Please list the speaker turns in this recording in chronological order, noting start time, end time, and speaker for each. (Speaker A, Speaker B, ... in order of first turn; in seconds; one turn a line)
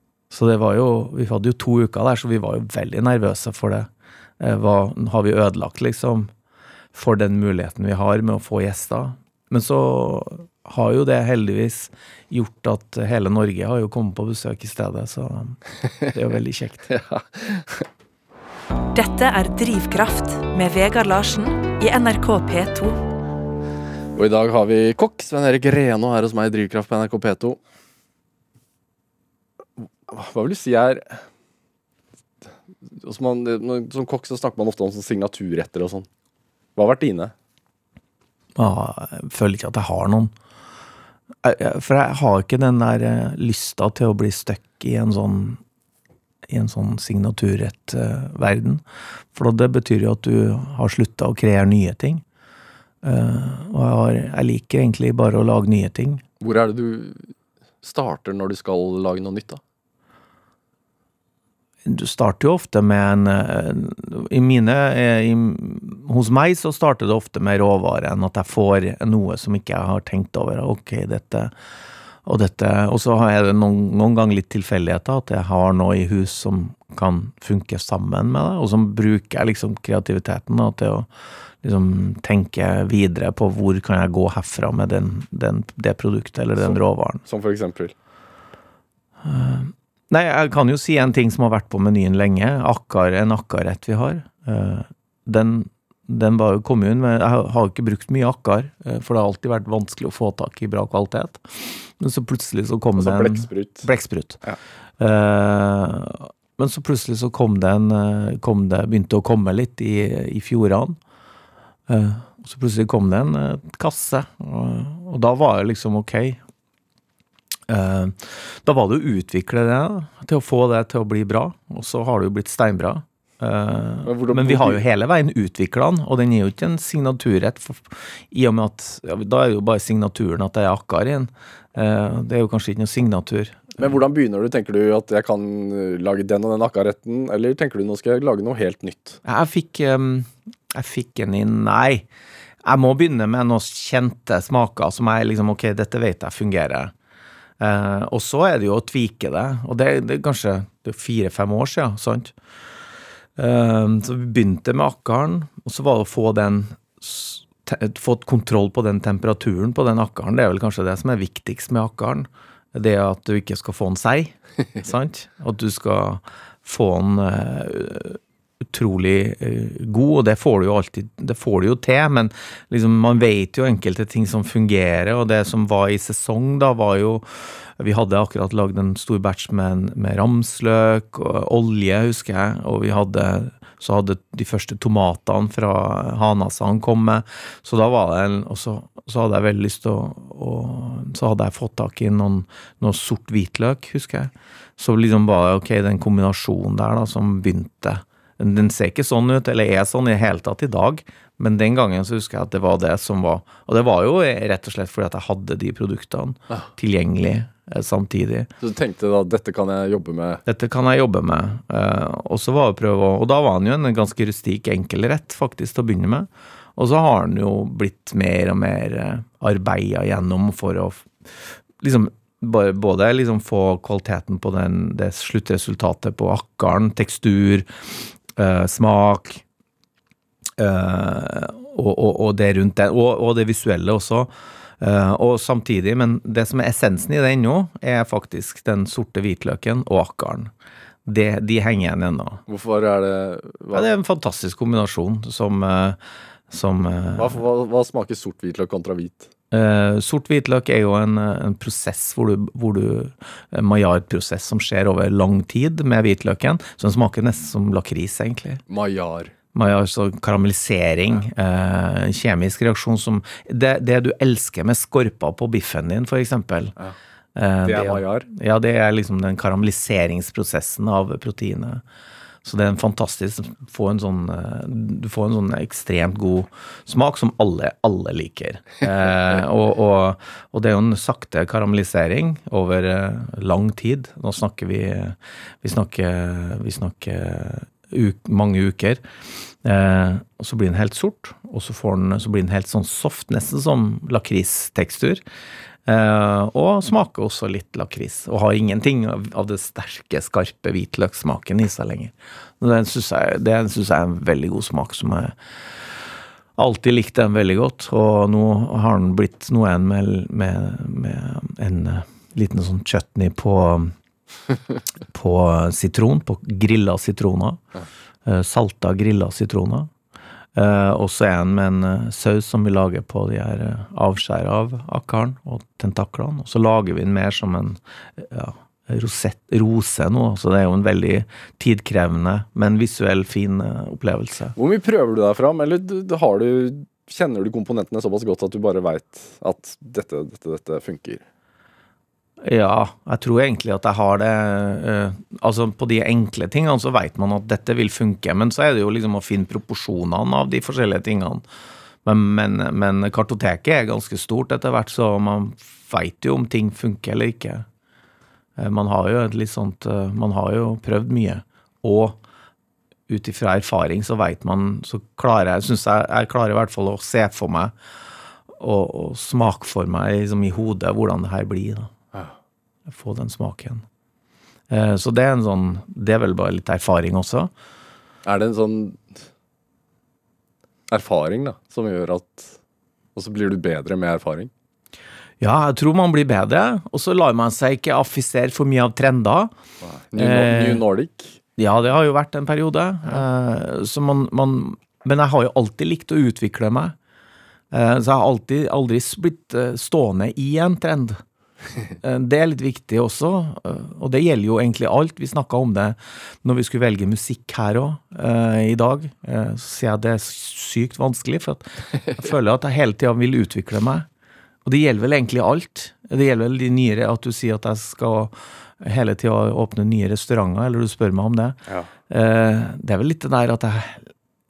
Speaker A: 0.3-3.9
Speaker A: 4.4-6.3
Speaker A: 6.9-16.9
Speaker B: 16.9-17.9
Speaker C: 18.9-23.0
Speaker B: 24.2-27.6
Speaker B: 30.1-31.2
Speaker B: 32.9-36.1
Speaker B: 36.8-37.3
Speaker A: 38.6-40.3
Speaker A: 41.4-45.6
Speaker A: 46.5-48.8
Speaker A: 49.3-52.2
Speaker A: 53.0-56.2
Speaker B: 56.4-59.6
Speaker A: 61.9-71.5
Speaker A: 72.2-81.1
Speaker A: 81.6-87.2
Speaker B: 86.6-87.9
Speaker A: 89.2-104.4
Speaker B: 103.0-103.9
Speaker A: 105.0-111.0
Speaker A: 111.9-116.4
Speaker A: 117.7-133.9
Speaker B: 124.0-124.8
Speaker B: 133.8-139.2
Speaker A: 139.2-142.1
Speaker A: 142.6-146.9
Speaker A: 147.6-152.3
Speaker A: 153.4-208.5
Speaker B: 208.6-210.4
Speaker A: 210.5-227.7
Speaker A: 228.3-229.4
Speaker A: 230.6-240.5
Speaker A: 241.1-242.4
Speaker B: 242.5-243.9
Speaker A: 243.7-246.0
Speaker A: 246.5-247.4
Speaker B: 247.2-249.3
Speaker A: 249.5-258.6
Speaker B: 258.7-259.3
Speaker A: 259.5-266.8
Speaker A: 267.4-271.8
Speaker B: 267.6-268.3
Speaker A: 272.4-289.0
Speaker A: 289.6-295.2
Speaker A: 295.9-305.4
Speaker A: 306.6-313.9
Speaker A: 315.1-317.6
Speaker A: 318.2-319.9
Speaker A: 320.6-334.6
Speaker B: 334.6-341.2
Speaker A: 342.4-351.4
Speaker A: 352.0-357.7
Speaker A: 358.6-362.2
Speaker A: 363.1-367.8
Speaker A: 368.5-371.9
Speaker A: 372.9-373.9
Speaker A: 374.7-377.5
Speaker B: 378.2-379.2
Speaker B: 380.9-382.6
Speaker B: 383.1-384.5
Speaker A: 385.4-389.5
Speaker B: 389.8-391.4
Speaker A: 390.1-390.8
Speaker A: 391.6-397.0
Speaker A: 397.7-401.2
Speaker A: 402.0-414.1
Speaker A: 414.6-424.1